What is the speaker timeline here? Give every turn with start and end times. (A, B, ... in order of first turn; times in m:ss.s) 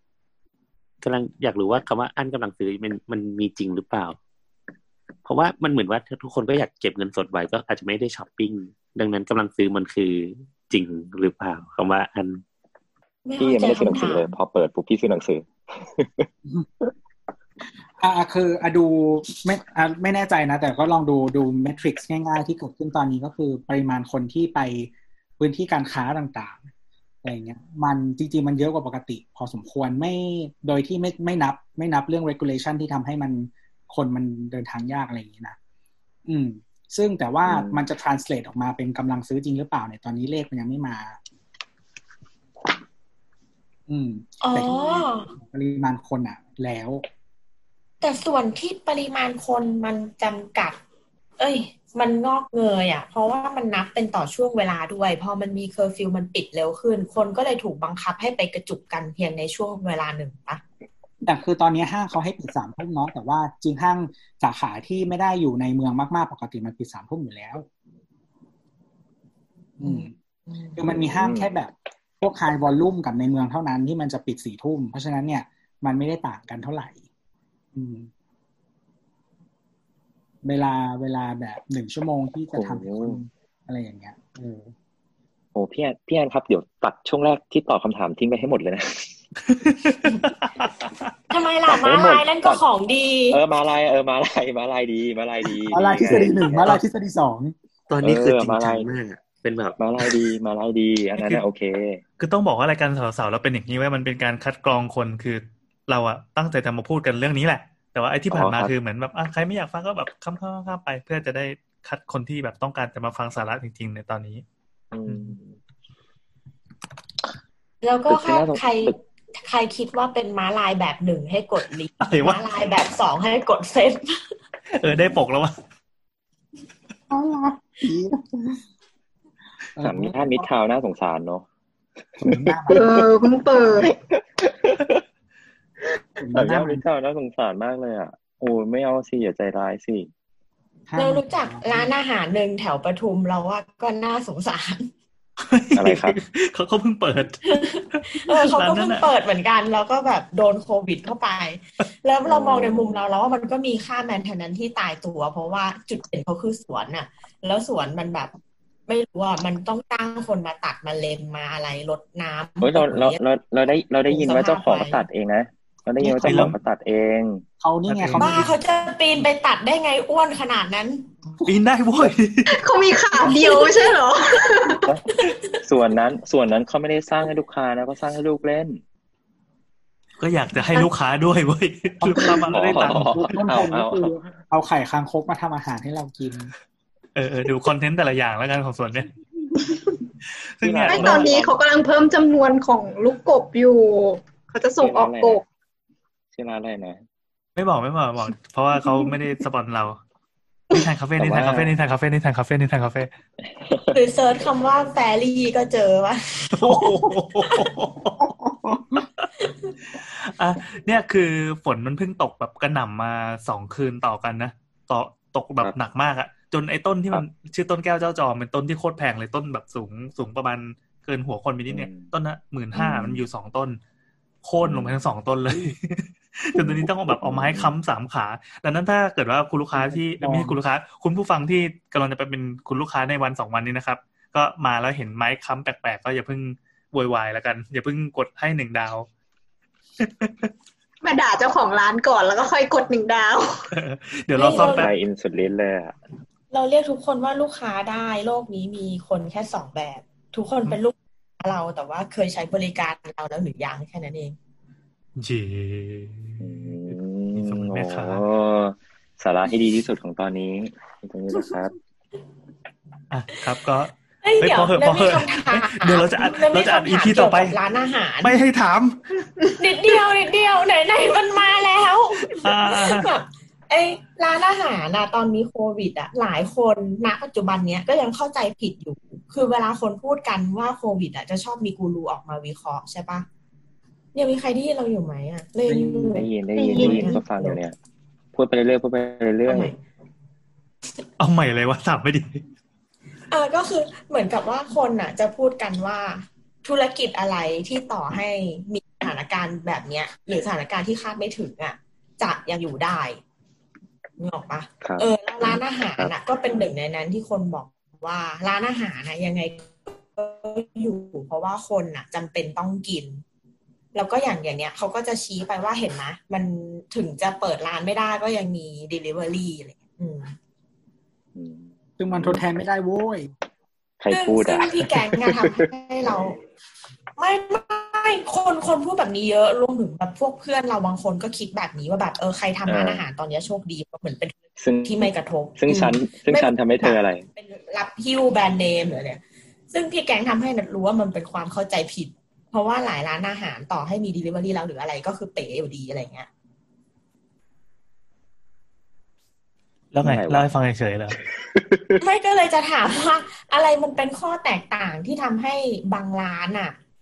0:01.0-0:04.2 A
0:05.2-0:12.4 A
0:13.3-0:14.3 B
0:13.4-0:16.3 C
0:18.0-0:26.7 D
0:27.2-0:35.6 D
0:36.3-0:41.2 D
0:37.5-0:37.9 C
0:43.9-0:47.0 D
0:44.4-0:45.3 B
0:48.0-0:50.8 B
0:51.4-1:00.6 B
1:01.3-1:07.7 D
1:09.8-1:10.8 B
1:09.8-1:10.1 D
1:10.8-1:17.0 D
1:10.9-1:11.6 C
1:17.7-1:18.1 D
1:20.4-1:24.7 D
1:22.5-1:23.2 C
1:25.6-1:29.1 C
1:29.5-1:30.8 E
1:31.3-1:33.4 B
1:31.7-1:32.6 C
1:33.3-1:36.8 C
1:35.7-1:37.5 D
1:37.9-1:40.2 A
1:38.0-1:38.9 C
1:39.8-1:42.0 C
1:41.2-1:41.4 E
1:42.2-1:54.4 E
1:48.3-1:48.7 C
1:54.9-1:55.6 C
1:57.8-2:04.2 B
1:58.1-1:59.0 C
2:02.0-2:02.4 E
2:04.8-2:05.5 E
2:07.1-2:08.6 D
2:09.8-2:10.5 D
2:09.8-2:11.5 C
2:12.2-2:12.8 D
2:12.2-2:12.9 C
2:12.7-2:13.9 F
2:16.2-2:16.8 D
2:16.3-2:20.1 C
2:20.9-2:21.9 D
2:21.0-2:24.9 B
2:25.5-2:29.1 E
2:25.8-2:26.2 C
2:27.4-2:38.3 B
2:32.2-2:33.0 C
2:38.9-2:43.2 B
2:42.6-2:47.4 C
2:44.1-2:45.0 B
2:46.0-2:46.5 D
2:46.2-2:46.6 E
2:47.6-2:48.5 D
2:47.9-2:48.5 E
2:48.2-2:51.1 B
2:51.4-2:52.6 E
2:52.5-2:54.8 F
2:53.2-2:54.0 B
2:55.6-2:58.8 C
3:00.2-3:03.4 E
3:02.0-3:06.5 D
3:02.4-3:04.2 C
3:07.2-3:09.1 E
3:10.6-3:11.3 E
3:10.6-3:11.6 C
3:10.9-3:15.4 F
3:14.8-3:15.4 C
3:16.3-3:17.0 C
3:17.6-3:20.0 E
3:20.7-3:23.1 E
3:21.2-3:21.7 C
3:23.6-3:24.0 C
3:23.9-3:27.0 B
3:26.5-3:28.2 E
3:28.2-3:29.0 D
3:30.0-3:43.8 E
3:41.7-3:42.1 C
3:44.4-3:59.1 E
3:44.6-3:45.0 C
3:46.6-3:47.7 C
3:49.7-3:50.6 D
4:00.0-4:00.5 E
4:01.0-4:03.6 F
4:03.7-4:04.9 E
4:04.4-4:04.9 B
4:04.4-4:06.0 C
4:06.5-4:14.4 B
4:15.2-4:18.2 E
4:16.4-4:21.8 C
4:23.1-4:27.6 E
4:24.2-4:28.4 B
4:28.2-4:29.3 E
4:29.6-4:43.3 B
4:32.3-4:33.1 E
4:44.2-4:47.5 B
4:45.7-4:46.2 D
4:46.1-4:47.8 C
4:46.6-4:47.2 F
4:48.3-4:49.8 C
4:49.5-4:49.8 B
4:51.2-4:52.4 E
4:53.3-5:03.2 B
5:04.2-5:13.2 B
5:04.8-5:06.1 C
5:13.9-5:20.4 B
5:21.4-5:22.5 C
5:22.0-5:23.3 D
5:24.0-5:25.6 C
5:24.1-5:26.4 B
5:27.2-5:46.3 B
5:32.7-5:33.0 C
5:34.6-5:37.3 C
5:49.9-5:51.2 E
5:50.0-5:50.5 C
5:51.6-5:52.0 C
5:52.0-5:56.8 B